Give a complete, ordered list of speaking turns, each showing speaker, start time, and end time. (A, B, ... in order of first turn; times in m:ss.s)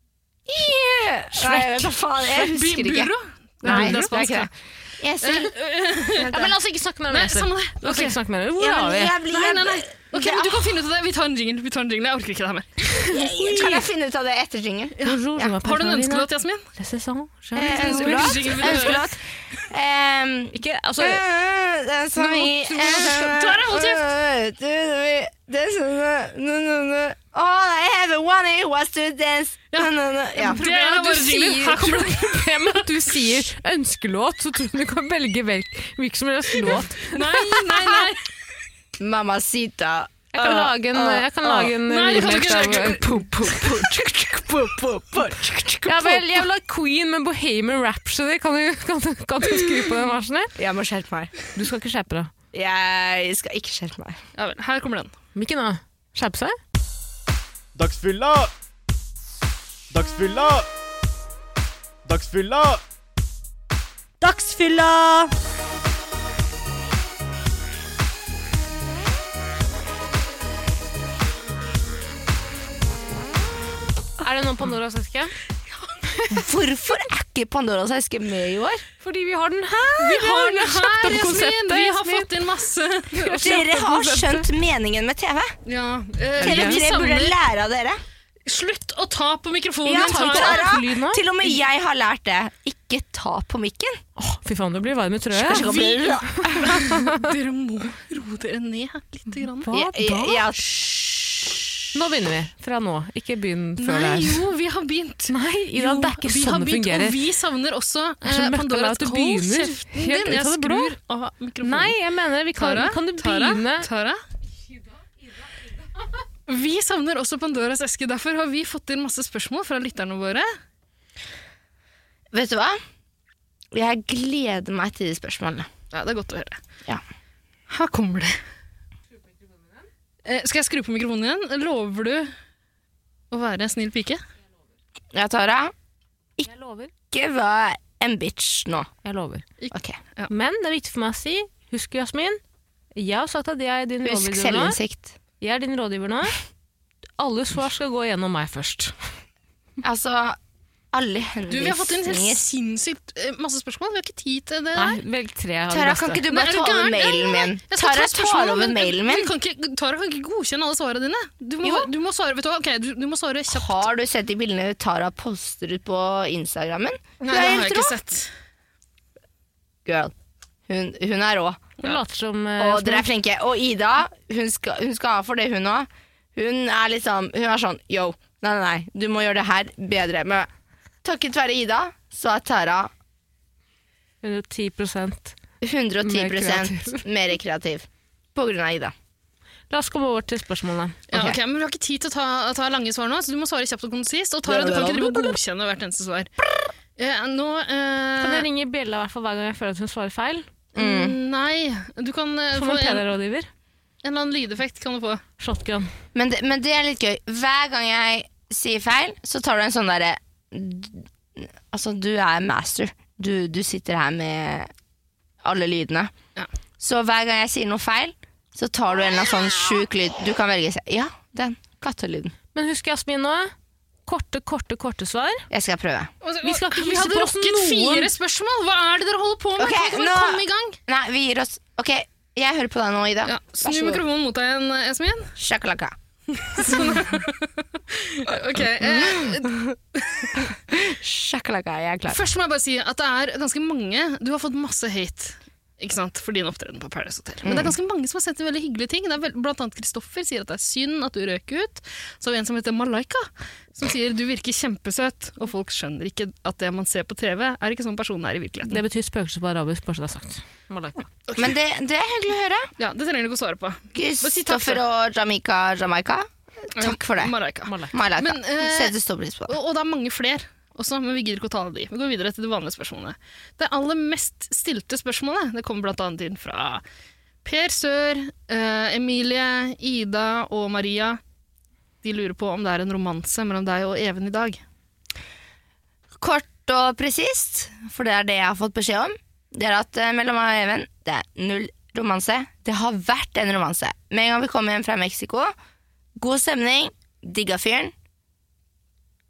0:00.5-0:05.5 A
0:01.3-0:01.9 B
0:02.3-0:04.5 C
0:03.6-0:04.1 B
0:05.2-0:06.3 C
0:06.1-0:06.5 A
0:06.3-0:09.2 B
0:07.1-0:08.2 C
0:08.6-0:10.8 A
0:09.3-0:12.8 C
0:12.9-0:13.8 B
0:13.1-0:15.6 A
0:15.0-0:16.7 C
0:15.0-0:19.0 B
0:17.6-0:30.6 A
0:17.6-0:19.1 C
0:20.5-0:21.2 B
0:22.2-0:24.1 C
0:29.7-0:33.1 C
0:30.4-0:38.0 B
0:37.0-0:38.3 C
0:39.0-0:41.7 A
0:40.3-0:43.6 B
0:41.8-0:43.1 C
0:42.7-0:46.4 A
0:45.9-0:50.5 B
0:50.6-0:51.3 A
0:51.6-0:52.3 B
0:52.5-0:54.2 A
0:54.4-0:55.1 C
0:55.4-0:56.6 B
0:57.8-0:58.5 D
0:59.9-1:00.7 D
1:02.1-1:02.8 D
1:04.3-1:05.3 A
1:14.2-1:15.3 B
1:16.3-1:18.8 A
1:19.0-1:22.3 B
1:20.0-1:23.8 C
1:23.1-1:24.4 B
1:23.3-1:25.6 A
1:25.7-1:27.4 C
1:26.4-1:28.0 A
1:26.4-1:26.8 B
1:28.5-1:30.8 C
1:29.8-1:34.0 A
1:29.9-1:31.2 B
1:34.2-1:37.3 B
1:35.3-1:36.8 A
1:35.6-1:39.7 C
1:39.6-1:40.5 B
1:39.7-1:41.8 A
1:41.9-1:44.4 B
1:43.8-1:52.0 C
1:45.3-1:47.2 B
1:48.2-1:51.0 B
1:51.6-1:53.9 B
1:52.6-1:54.2 C
1:56.5-2:00.5 C
2:02.3-2:02.8 A
2:03.7-2:05.7 A
2:05.9-2:06.6 C
2:07.7-2:08.4 C
2:10.2-2:12.3 C
2:13.3-2:14.2 C
2:15.1-2:15.7 A
2:16.4-2:16.9 B
2:17.1-2:18.9 A
2:19.0-2:19.4 B
2:19.6-2:20.3 C
2:19.7-2:20.0 A
2:20.3-2:22.4 B
2:23.0-2:24.8 B
2:24.0-2:25.2 A
2:25.4-2:26.4 B
2:27.2-2:28.9 B
2:29.8-2:30.4 A
2:30.9-2:32.4 A
2:31.5-2:35.0 C
2:34.7-2:36.2 B
2:35.7-2:39.3 A
2:36.3-2:43.9 C
2:41.6-2:41.9 A
2:43.5-2:48.0 A
2:47.2-2:48.3 C
2:49.8-2:50.1 A
2:50.7-2:51.7 A
2:51.8-2:53.1 B
2:52.6-3:00.5 A
3:01.0-3:02.9 A
3:04.2-3:05.4 B
3:05.6-3:08.9 A
3:06.0-3:07.0 B
3:09.7-3:11.0 B
3:11.1-3:16.3 C
3:11.1-3:11.4 A
3:14.5-3:15.4 A
3:17.0-3:18.5 C
3:18.2-3:20.5 B
3:20.8-3:23.0 C
3:20.8-3:21.2 A
3:22.5-3:23.5 B
3:24.0-3:25.2 C
3:25.4-3:25.9 B
3:26.1-3:34.7 A
3:35.4-3:36.1 A
3:36.8-3:42.4 A
3:42.5-3:43.5 B
3:44.1-3:45.5 B
3:45.5-3:46.1 A
3:46.2-3:50.8 C
3:46.4-3:48.1 B
3:49.6-3:54.0 A
3:53.2-3:55.3 C
3:55.4-3:56.0 A
3:56.4-4:00.5 C
3:58.8-3:59.8 A
4:00.4-4:02.2 A
4:02.1-4:18.8 C
4:07.4-4:07.8 A
4:18.7-4:21.1 B
4:21.4-4:22.7 A
4:22.8-4:24.8 C
4:24.0-4:27.4 A
4:26.8-4:29.0 C
4:27.7-4:27.9 B
4:27.9-4:29.6 A
4:29.5-4:36.8 C
4:37.4-4:41.2 C
4:42.0-4:44.6 C
4:46.2-4:55.5 A
4:56.2-4:57.9 A